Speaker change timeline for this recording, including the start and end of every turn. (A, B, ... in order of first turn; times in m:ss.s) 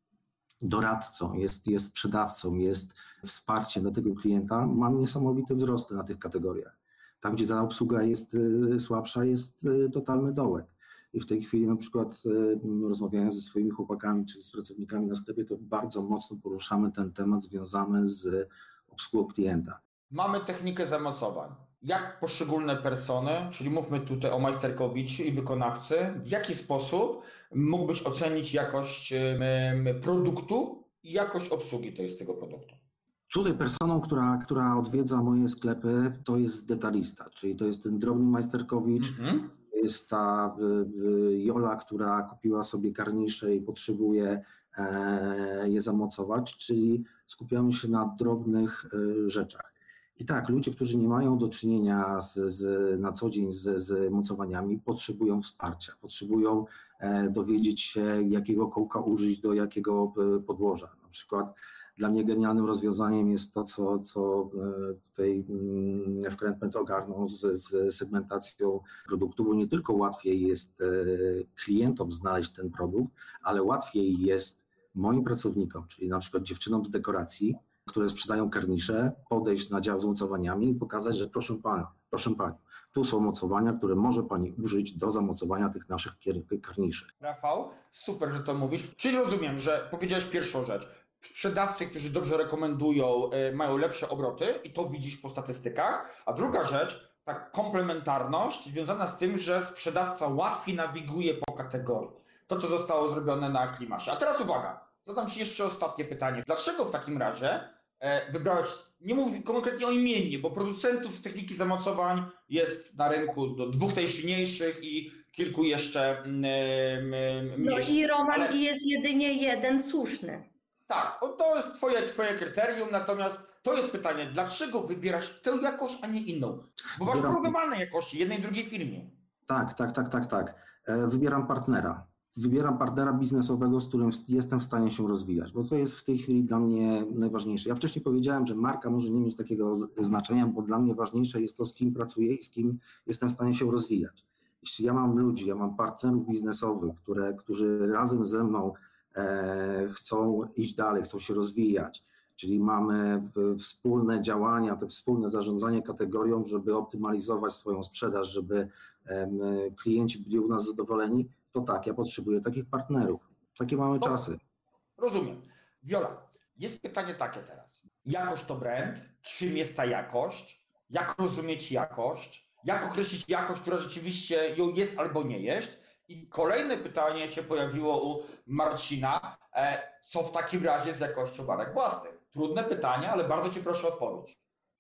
0:00.6-0:19.8 A
0:20.1-0:32.8 B
0:33.3-1:27.1 A
0:39.0-0:39.5 B
1:27.2-1:58.6 B
1:57.6-2:00.4 C
2:00.9-2:09.2 B
2:07.0-2:07.5 A
2:09.5-2:44.4 A
2:44.0-2:44.2 B
2:45.0-3:04.4 B